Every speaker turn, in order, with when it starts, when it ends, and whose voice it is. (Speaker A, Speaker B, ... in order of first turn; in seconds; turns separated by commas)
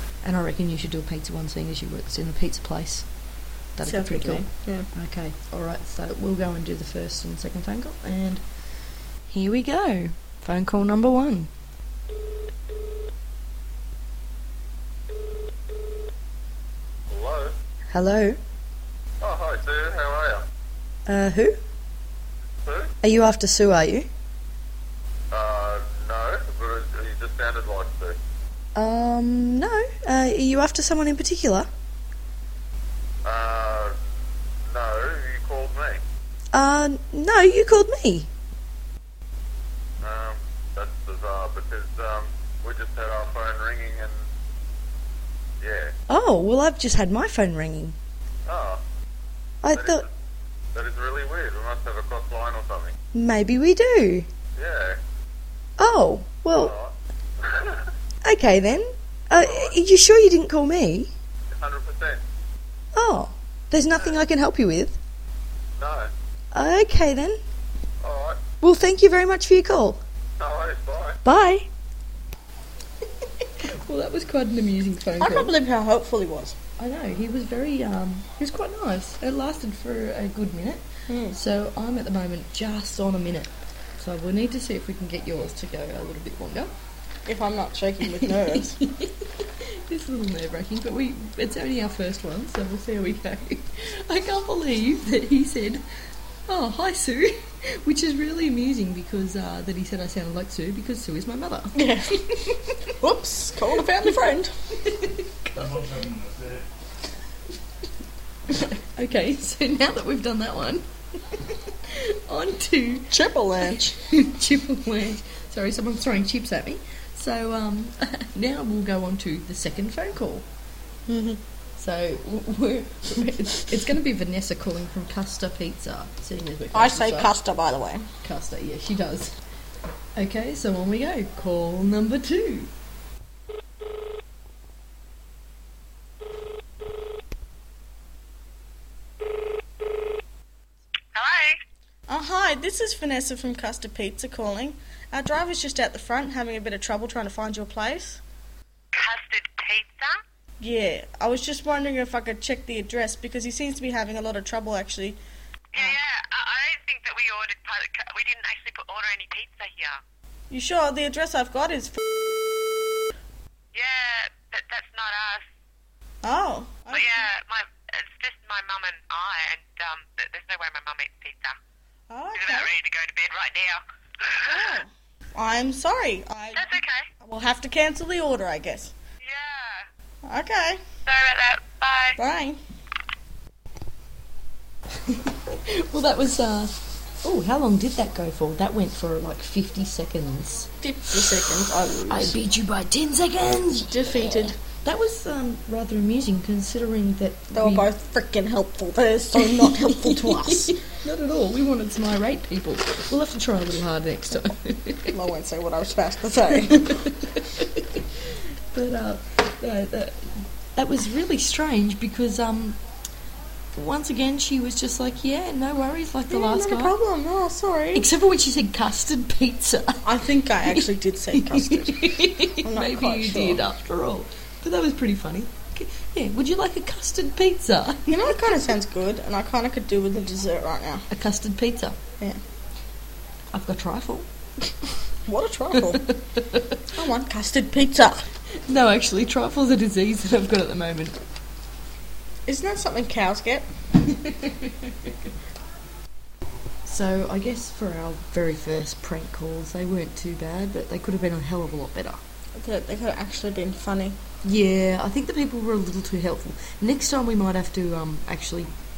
Speaker A: 0.2-8.4, Speaker B: 3.8-4.9, Speaker A: 9.3-11.5, Speaker C: 17.1-17.5, Speaker A: 17.9-18.4, Speaker C: 19.2-20.4, Speaker A: 21.1-21.6, Speaker C: 22.6-22.9, Speaker A: 23.0-24.1, Speaker C: 25.3-28.2, Speaker A: 28.7-31.7, Speaker C: 33.2-33.9, Speaker C: 34.7-36.0, Speaker A: 36.5-38.3, Speaker C: 40.0-44.1, Speaker C: 45.6-45.9, Speaker A: 46.1-48.0, Speaker C: 48.5-48.8, Speaker A: 49.6-50.0, Speaker C: 49.7-50.1, Speaker C: 50.7-53.0, Speaker A: 53.1-54.3, Speaker C: 54.5-55.0, Speaker A: 55.8-56.7, Speaker C: 56.5-57.9, Speaker A: 58.2-61.1, Speaker C: 59.4-59.8, Speaker C: 61.5-62.2, Speaker A: 62.9-65.0, Speaker C: 63.9-64.2, Speaker C: 65.8-66.1, Speaker A: 66.5-67.4, Speaker C: 68.0-68.4, Speaker A: 68.6-70.0, Speaker C: 70.4-71.2, Speaker A: 71.2-71.7, Speaker A: 73.2-75.5, Speaker B: 75.2-76.5, Speaker A: 76.8-86.7, Speaker B: 81.1-81.3, Speaker B: 87.2-88.8, Speaker A: 88.2-95.8, Speaker A: 96.5-102.8, Speaker B: 101.7-102.2, Speaker B: 103.0-104.5, Speaker A: 104.7-106.1, Speaker A: 108.5-113.1, Speaker B: 113.1-113.9, Speaker A: 113.6-120.4, Speaker B: 121.1-121.4, Speaker A: 121.8-127.3, Speaker B: 126.7-128.1, Speaker A: 128.2-129.4, Speaker A: 130.1-132.7, Speaker D: 141.1-141.6, Speaker B: 142.1-148.2, Speaker D: 148.9-150.2, Speaker B: 150.6-155.2, Speaker D: 155.7-160.0, Speaker B: 160.5-162.0, Speaker D: 163.7-165.4, Speaker B: 166.2-167.2, Speaker D: 166.9-171.5, Speaker B: 172.1-172.7, Speaker D: 172.3-174.7, Speaker B: 174.4-178.9, Speaker D: 176.5-177.1, Speaker D: 179.2-179.9, Speaker B: 180.2-180.8, Speaker D: 181.0-182.2, Speaker B: 182.2-182.6, Speaker A: 185.0-190.7, Speaker B: 190.8-192.3, Speaker A: 192.1-197.9, Speaker B: 193.9-194.6, Speaker B: 197.5-200.8, Speaker A: 199.3-205.1, Speaker B: 205.1-207.1, Speaker A: 206.6-212.8, Speaker A: 213.7-216.9, Speaker B: 216.3-218.1, Speaker A: 217.9-220.0, Speaker B: 220.0-223.6, Speaker A: 220.6-228.4, Speaker B: 228.1-231.1, Speaker A: 231.1-232.0, Speaker A: 233.5-234.3, Speaker B: 235.2-236.0, Speaker A: 235.8-236.8, Speaker B: 236.9-238.3, Speaker A: 238.7-241.2, Speaker B: 242.5-243.7, Speaker A: 244.0-245.1, Speaker A: 246.8-252.2, Speaker B: 252.6-254.2, Speaker A: 254.4-258.7